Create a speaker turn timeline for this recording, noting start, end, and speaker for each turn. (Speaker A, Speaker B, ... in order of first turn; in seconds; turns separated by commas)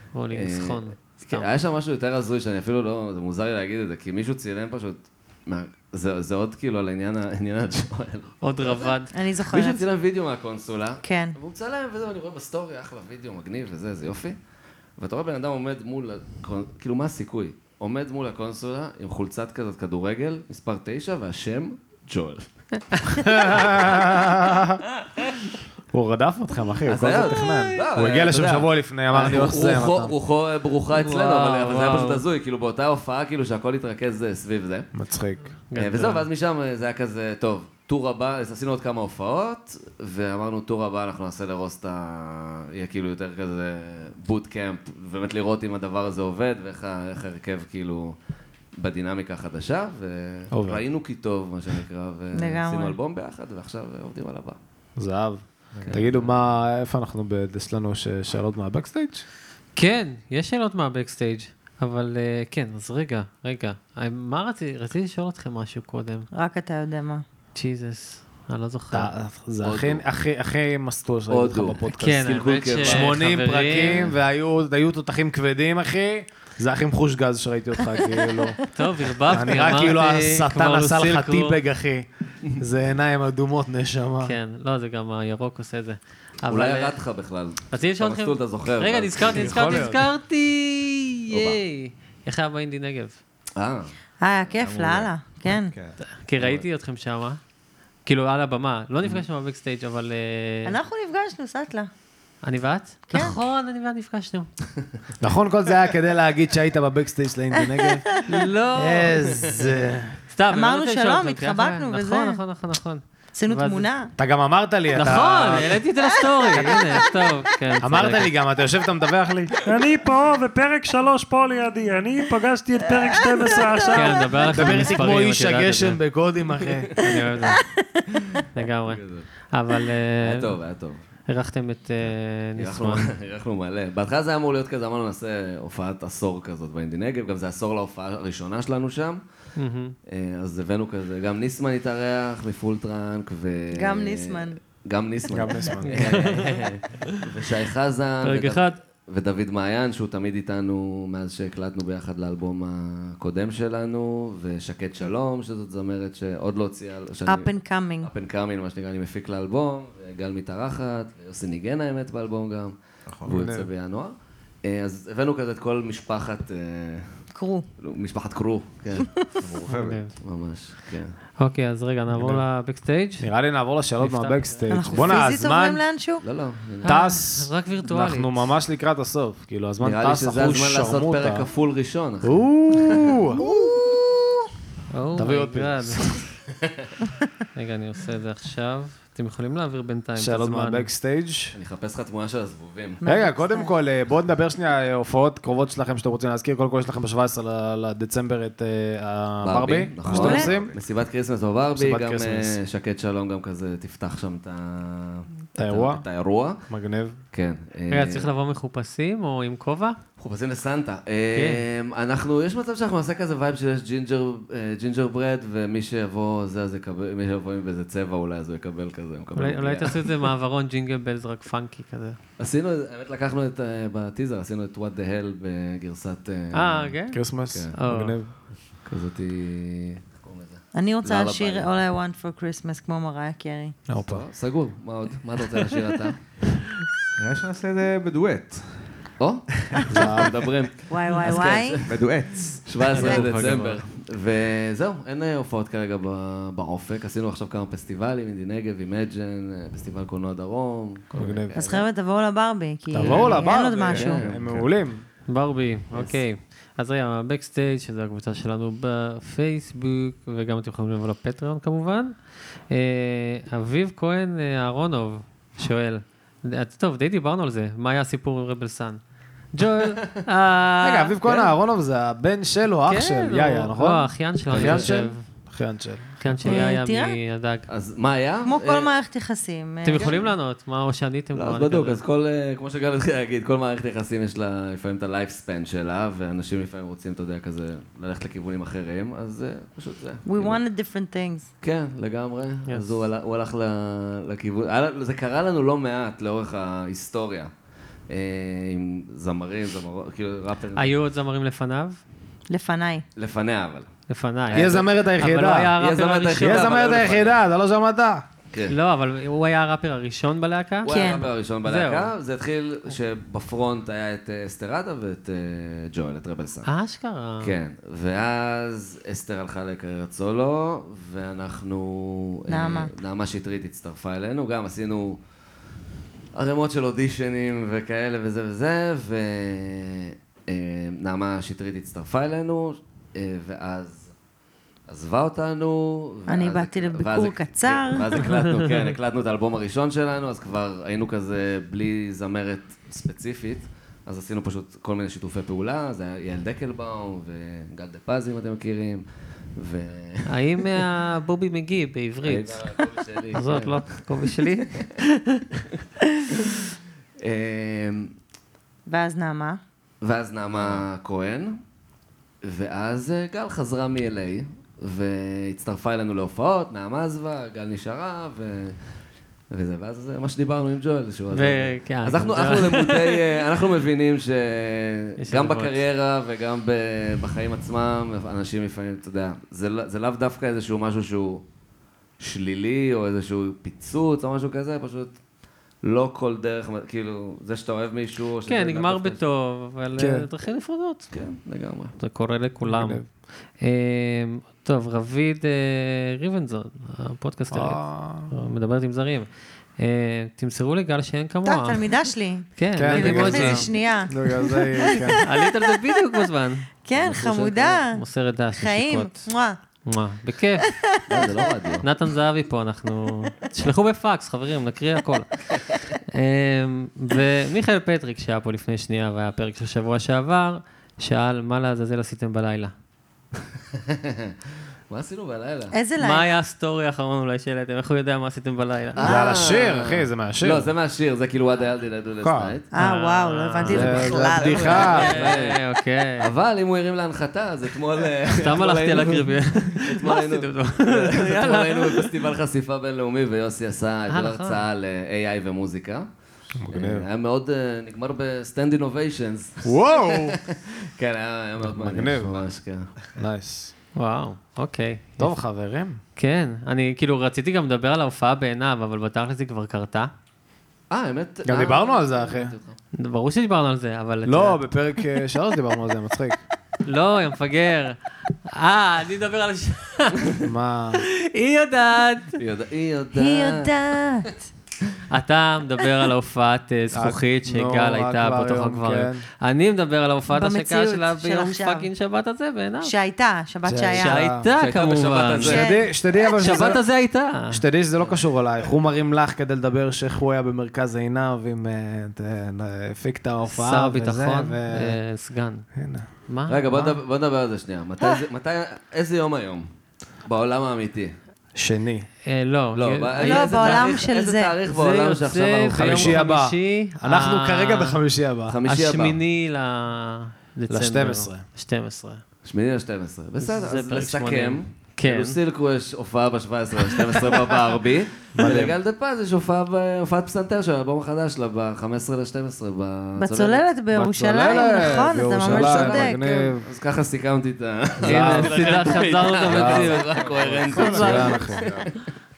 Speaker A: 0.1-1.5, Speaker B: 0.3-8.9, Speaker A: 8.4-9.1, Speaker C: 9.1-9.8, Speaker B: 9.5-14.4, Speaker C: 11.0-11.4, Speaker B: 15.0-22.4, Speaker D: 23.2-24.8, Speaker D: 25.9-30.1, Speaker B: 26.9-34.9, Speaker A: 30.9-32.2, Speaker D: 34.9-35.5, Speaker A: 35.7-36.3, Speaker B: 35.8-48.2, Speaker B: 48.8-54.6, Speaker D: 50.5-50.8, Speaker C: 52.3-53.0, Speaker D: 55.0-59.3, Speaker E: 55.7-56.0, Speaker B: 55.9-56.4, Speaker A: 59.8-66.3, Speaker C: 66.3-67.2, Speaker A: 67.5-69.1, Speaker D: 68.9-78.6, Speaker B: 69.6-70.0, Speaker B: 71.3-73.2, Speaker A: 71.9-74.0, Speaker B: 73.7-74.1, Speaker A: 78.7-81.6, Speaker D: 79.3-84.4, Speaker A: 84.2-87.0, Speaker B: 86.5-89.6, Speaker A: 87.7-93.2, Speaker D: 89.3-90.1, Speaker B: 91.3-91.6, Speaker B: 93.6-93.9, Speaker C: 94.2-95.7, Speaker E: 94.6-96.0, Speaker A: 96.0-97.4, Speaker B: 96.4-96.6, Speaker A: 98.1-100.8, Speaker C: 100.6-101.9, Speaker A: 102.4-104.5, Speaker C: 103.1-103.4, Speaker D: 105.2-108.1, Speaker C: 107.6-108.0, Speaker A: 108.3-109.2, Speaker D: 108.7-110.2, Speaker A: 110.3-113.9, Speaker C: 110.5-112.4, Speaker C: 113.3-114.1, Speaker D: 114.2-115.8, Speaker A: 114.9-118.3, Speaker C: 116.5-116.8, Speaker D: 117.8-119.6, Speaker F: 119.7-124.3, Speaker A: 123.9-126.0, Speaker D: 124.5-127.0, Speaker A: 127.0-127.6, Speaker A: 128.5-130.6, Speaker B: 128.9-129.3, Speaker B: 130.2-131.0, Speaker A: 131.3-133.1, Speaker B: 132.1-139.2, Speaker A: 139.6-139.9, Speaker B: 140.1-164.1, Speaker C: 143.7-144.6, Speaker D: 145.3-146.2, Speaker A: 145.8-146.6, Speaker A: 148.2-148.8, Speaker C: 157.3-158.1, Speaker E: 163.1-163.3, Speaker D: 163.2-163.7, Speaker B: 164.6-167.2, Speaker C: 167.3-167.7, Speaker B: 167.8-169.1, Speaker C: 169.0-169.3, Speaker E: 169.4-170.1, Speaker A: 169.7-170.1, Speaker B: 170.2-171.1, Speaker A: 171.4-173.3, Speaker D: 172.1-172.4, Speaker D: 173.2-175.8, Speaker A: 174.0-174.7, Speaker C: 174.7-176.2, Speaker B: 176.2-176.9, Speaker A: 176.8-178.5, Speaker D: 176.8-181.5, Speaker B: 179.8-183.2, Speaker D: 182.2-183.4, Speaker C: 183.4-184.3, Speaker A: 184.9-186.2, Speaker D: 185.2-186.3, Speaker B: 186.6-186.9, Speaker A: 187.6-190.9, Speaker D: 190.2-191.6, Speaker B: 191.5-193.0, Speaker C: 193.0-193.7, Speaker D: 193.0-200.7, Speaker B: 199.4-206.7, Speaker C: 200.1-200.5, Speaker E: 200.5-200.7, Speaker D: 201.8-202.6, Speaker D: 205.6-206.0, Speaker D: 206.7-207.2, Speaker B: 207.3-208.3, Speaker A: 207.9-210.0, Speaker B: 210.2-220.1, Speaker A: 211.3-211.6, Speaker A: 219.4-222.2, Speaker B: 222.4-226.9, Speaker A: 226.5-227.2, Speaker D: 227.1-228.3, Speaker B: 227.5-227.7, Speaker A: 227.7-228.2, Speaker B: 228.8-231.7, Speaker C: 230.7-233.8, Speaker D: 233.9-234.3, Speaker B: 234.0-236.2, Speaker E: 237.2-238.9, Speaker B: 239.2-251.8, Speaker E: 239.6-240.0, Speaker D: 239.9-240.3, Speaker C: 240.9-241.8, Speaker E: 241.9-242.9, Speaker A: 242.9-243.8, Speaker C: 242.9-243.2, Speaker D: 251.1-251.6, Speaker C: 251.6-254.3, Speaker D: 252.9-255.1, Speaker E: 253.1-253.4, Speaker B: 253.9-254.7, Speaker A: 255.3-262.1, Speaker B: 255.9-256.2, Speaker A: 262.7-269.0, Speaker A: 269.5-271.5, Speaker D: 270.8-276.4, Speaker A: 272.9-275.2, Speaker B: 274.5-275.0, Speaker A: 276.2-277.6, Speaker C: 276.4-277.2, Speaker B: 277.7-278.9, Speaker C: 278.4-280.1, Speaker A: 279.8-282.0, Speaker B: 279.9-280.3, Speaker B: 281.4-290.6, Speaker C: 290.3-291.5, Speaker B: 291.6-297.5, Speaker B: 298.1-300.9, Speaker A: 300.8-302.0, Speaker C: 302.5-303.1, Speaker B: 303.2-303.9, Speaker A: 304.1-307.0, Speaker B: 304.5-305.1, Speaker D: 304.5-305.7, Speaker B: 305.8-307.4, Speaker D: 306.4-308.2, Speaker A: 308.7-310.9, Speaker B: 310.8-316.7, Speaker C: 310.9-311.2, Speaker A: 311.6-312.1, Speaker A: 316.7-317.6, Speaker B: 317.4-325.2, Speaker C: 322.5-322.9, Speaker B: 326.3-334.1, Speaker B: 334.9-349.0, Speaker C: 336.3-338.2, Speaker B: 349.6-350.7, Speaker A: 350.3-352.6, Speaker B: 352.2-354.0, Speaker A: 353.4-355.4, Speaker B: 357.2-358.1, Speaker C: 358.9-359.6, Speaker B: 360.0-361.6, Speaker B: 362.4-368.8, Speaker B: 369.5-381.4, Speaker A: 371.3-373.1, Speaker A: 375.2-375.8, Speaker B: 382.2-385.2, Speaker B: 385.8-389.2, Speaker A: 388.4-391.1, Speaker D: 390.0-390.3, Speaker B: 391.1-391.9, Speaker A: 392.0-401.9, Speaker D: 392.6-393.1, Speaker D: 397.5-398.3, Speaker C: 401.4-405.5, Speaker A: 402.6-403.7, Speaker D: 402.8-405.2, Speaker A: 405.2-409.3, Speaker C: 406.8-409.6, Speaker B: 406.9-407.5, Speaker A: 409.9-410.7, Speaker C: 410.7-411.2, Speaker B: 411.1-411.9, Speaker A: 411.8-415.5, Speaker A: 416.1-422.7, Speaker B: 423.7-424.3, Speaker B: 424.9-425.7, Speaker C: 425.7-426.3, Speaker A: 426.0-429.0, Speaker B: 428.9-432.7, Speaker D: 429.0-430.7, Speaker C: 429.0-429.3, Speaker D: 432.2-432.5, Speaker C: 432.7-434.9, Speaker A: 432.7-436.3, Speaker D: 433.7-435.2, Speaker B: 433.7-435.6, Speaker B: 436.2-446.1, Speaker A: 438.4-442.1, Speaker A: 444.1-444.6, Speaker D: 446.6-447.1, Speaker B: 446.7-452.9, Speaker D: 449.6-450.4, Speaker D: 451.6-452.4, Speaker D: 453.2-453.7, Speaker A: 454.0-455.4, Speaker D: 455.2-456.0, Speaker A: 456.2-460.1, Speaker B: 460.9-462.8, Speaker D: 461.4-462.6, Speaker A: 462.9-464.6, Speaker D: 464.3-466.4, Speaker A: 466.9-470.4, Speaker D: 470.4-471.0, Speaker A: 471.2-472.4, Speaker B: 472.4-473.7, Speaker C: 473.1-474.5, Speaker A: 475.1-482.9, Speaker D: 476.9-479.2, Speaker C: 480.3-481.9, Speaker C: 482.8-484.3, Speaker D: 483.6-484.4, Speaker A: 483.9-485.6, Speaker B: 484.6-485.7, Speaker D: 485.4-495.0, Speaker C: 485.4-485.9, Speaker A: 486.4-487.6, Speaker A: 493.5-495.7, Speaker D: 495.7-496.1, Speaker A: 496.3-496.9, Speaker B: 496.5-499.6, Speaker B: 500.2-501.1, Speaker D: 501.6-502.1, Speaker A: 502.3-503.9, Speaker B: 502.7-506.3, Speaker C: 503.2-504.5, Speaker A: 504.7-508.0, Speaker D: 505.7-508.6, Speaker B: 508.5-509.2, Speaker A: 508.7-512.2, Speaker D: 510.7-511.4, Speaker B: 512.5-523.6, Speaker A: 513.4-515.4, Speaker A: 516.9-517.4, Speaker D: 518.3-518.8, Speaker C: 523.2-526.5, Speaker D: 523.9-526.7, Speaker B: 524.5-532.0, Speaker D: 528.0-530.0, Speaker A: 528.0-531.3, Speaker E: 530.2-531.9, Speaker D: 530.7-531.6